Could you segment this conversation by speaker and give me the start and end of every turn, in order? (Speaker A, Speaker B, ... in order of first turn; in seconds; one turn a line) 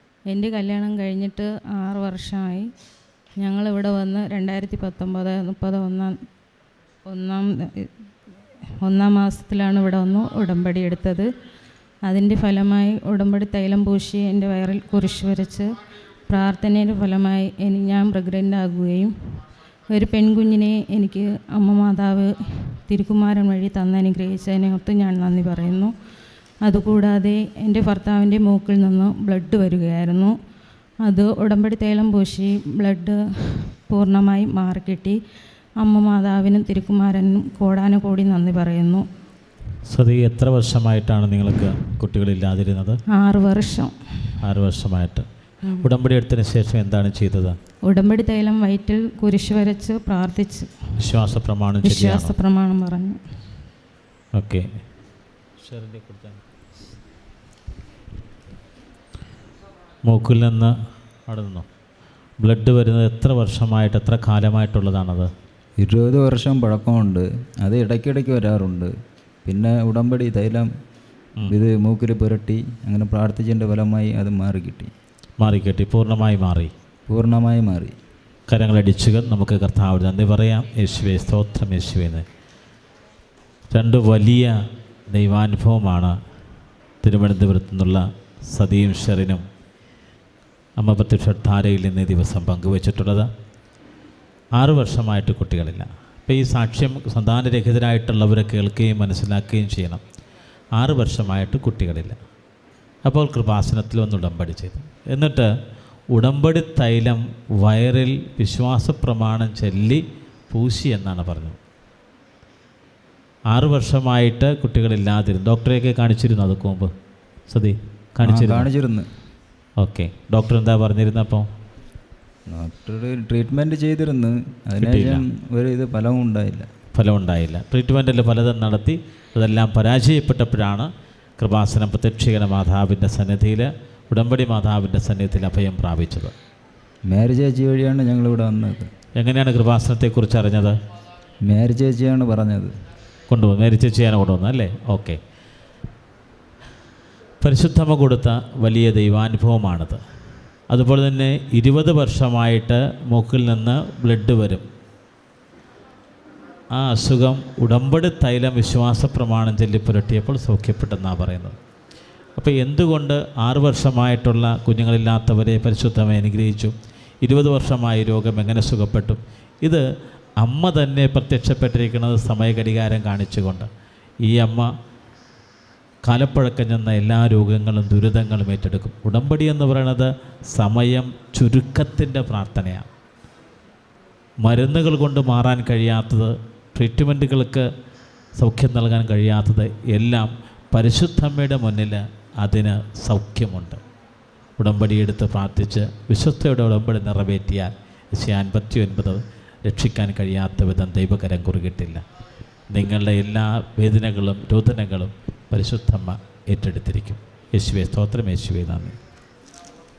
Speaker A: 0.3-2.7
Speaker A: 3.4-6.2
Speaker A: 7.1-7.9
Speaker A: 8.8-11.3
Speaker A: 12.1-15.7
Speaker A: 16.3-19.1
Speaker A: 19.9-25.9
Speaker A: 26.6-30.3
Speaker A: 31.0-35.2
Speaker A: 35.8-39.0
Speaker B: 39.9-43.0
Speaker A: 43.1-43.9
Speaker B: 44.4-45.2
Speaker A: 45.6-45.9
Speaker B: 45.8-47.6
Speaker A: 47.9-50.7
Speaker B: 51.0-52.3
Speaker A: 51.8-53.2
Speaker B: 54.4-54.6
Speaker B: 55.6-56.4
Speaker B: 60.1-60.7
Speaker B: 61.3-61.6
Speaker B: 62.4-65.3
Speaker C: 65.8-68.9
Speaker C: 69.5-70.7
Speaker C: 71.5-74.9
Speaker B: 75.4-76.7
Speaker C: 77.1-77.9
Speaker B: 78.5-82.2
Speaker B: 83.7-84.5
Speaker B: 85.1-86.2
Speaker B: 87.0-89.4
Speaker B: 90.8-93.3
Speaker B: 94.6-100.0
Speaker B: 100.8-102.2
Speaker B: 103.0-105.5
Speaker B: 106.1-111.6
Speaker B: 113.5-116.9
Speaker B: 117.5-118.7
Speaker C: 118.2-119.1
Speaker B: 119.8-121.5
Speaker C: 122.5-126.7
Speaker B: 124.8-125.2
Speaker B: 126.9-136.3
Speaker C: 137.1-138.9
Speaker B: 139.2-140.8
Speaker C: 141.5-142.7
Speaker B: 143.3-145.2
Speaker B: 147.4-150.0
Speaker B: 150.7-154.7
Speaker B: 156.8-161.6
Speaker B: 162.4-169.8
Speaker B: 170.4-173.7
Speaker B: 174.3-174.7
Speaker B: 176.1-182.9
Speaker B: 184.4-187.7
Speaker B: 188.4-193.8
Speaker B: 194.6-202.0
Speaker B: 202.7-209.0